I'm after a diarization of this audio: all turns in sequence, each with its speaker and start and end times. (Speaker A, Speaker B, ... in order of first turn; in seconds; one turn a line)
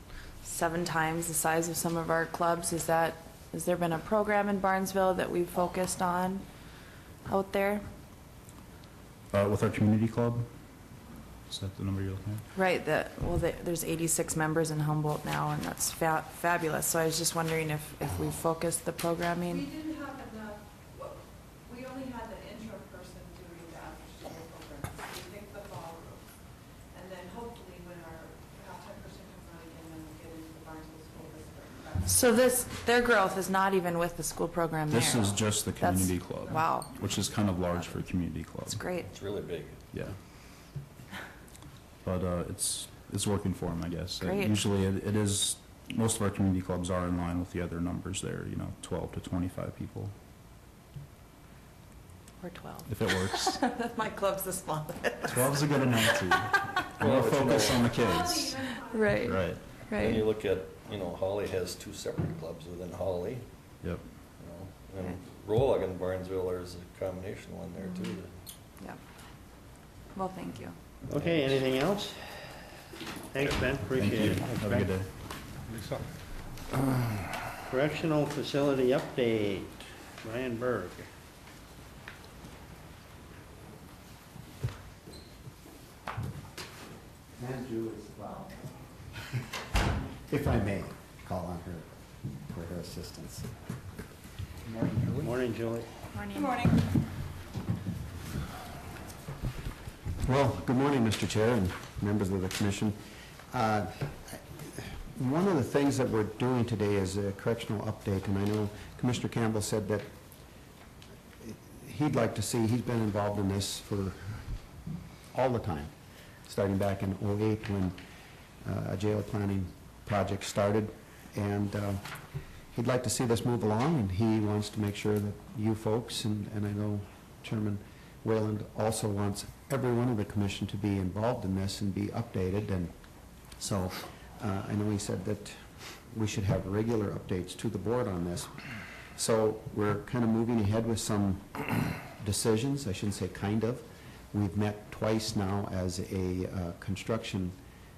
Speaker A: 0.4-6.4
Speaker A: 7.3-7.8
Speaker B: 9.3-10.5
Speaker B: 11.5-12.4
Speaker A: 12.5-19.7
Speaker C: 19.6-20.6
Speaker C: 21.7-26.1
Speaker C: 26.9-32.0
Speaker A: 32.0-37.0
Speaker B: 34.9-38.8
Speaker A: 38.6-39.1
Speaker D: 39.1-39.8
Speaker B: 39.9-40.2
Speaker B: 42.0-50.1
Speaker A: 44.2-44.6
Speaker A: 52.4-56.7
Speaker B: 52.9-53.6
Speaker B: 55.2-58.7
Speaker D: 57.0-57.9
Speaker C: 57.9-58.5
Speaker A: 58.8-60.2
Speaker B: 59.2-59.6
Speaker D: 59.9-63.4
Speaker D: 64.4-68.3
Speaker A: 70.1-70.8
Speaker E: 71.1-72.2
Speaker E: 73.3-74.9
Speaker B: 73.9-75.1
Speaker E: 77.7-81.0
Speaker F: 87.3-88.7
Speaker F: 90.3-91.9
Speaker F: 92.4-93.5
Speaker E: 95.1-95.9
Speaker A: 96.1-96.7
Speaker F: 100.2-110.1
Speaker F: 111.4-114.4
Speaker F: 115.3-115.9
Speaker F: 116.5-118.0
Speaker F: 118.6-122.0
Speaker F: 122.7-132.9
Speaker F: 133.6-138.5
Speaker F: 139.1-147.6